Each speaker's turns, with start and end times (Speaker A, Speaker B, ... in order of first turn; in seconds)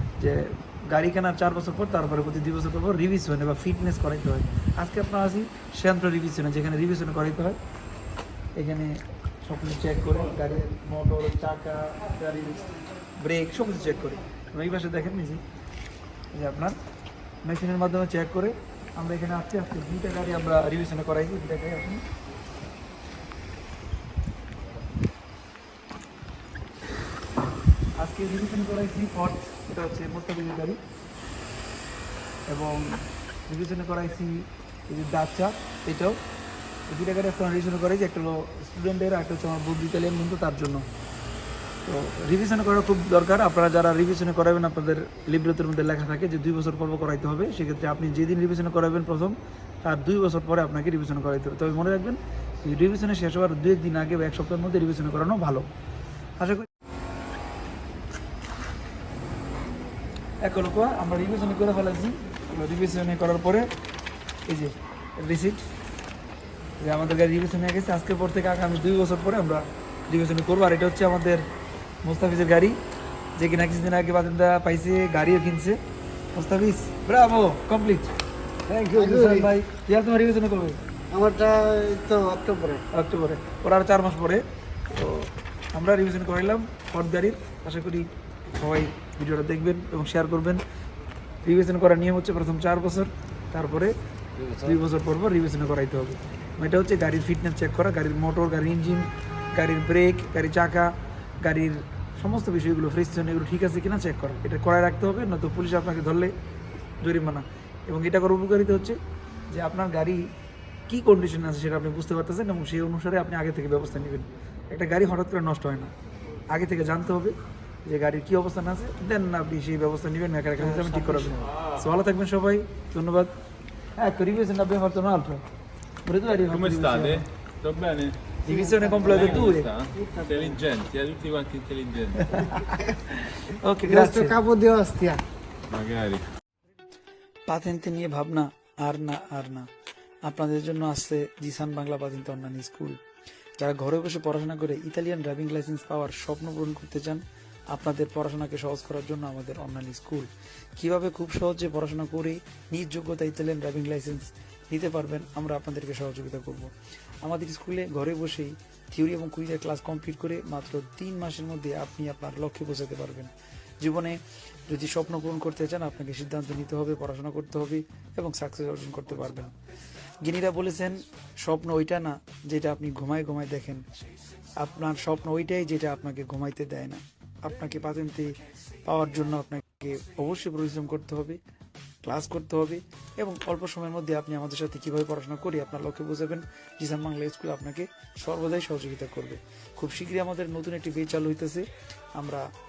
Speaker A: 0.2-7.6, 8.6-15.4, 16.3-16.8, 17.4-22.0, 28.0-30.8, 32.5-36.2, 36.9-40.9, 41.8-55.7, 56.4-56.7, 60.4-63.7, 64.5-65.7, 66.8-71.5, 72.0-72.8, 73.4-75.8, 76.3-78.1, 78.9-80.8, 82.9-90.6, 91.4-94.0, 94.5-106.3, 107.0-109.0, 109.5-110.2, 110.9-115.9, 116.5-117.3, 117.9-123.3, 124.0-125.4, 126.0-127.2, 128.4-129.7, 132.2-134.4, 137.5-139.7, 140.2-143.0, 143.6-169.5, 170.2-173.8, 174.6-181.4, 182.0-192.5
Speaker B: 78.7-79.5, 81.1-82.8, 120.6-121.5, 128.4-130.6, 133.8-135.2
Speaker C: 126.4-128.2, 129.0-132.4, 135.7-136.2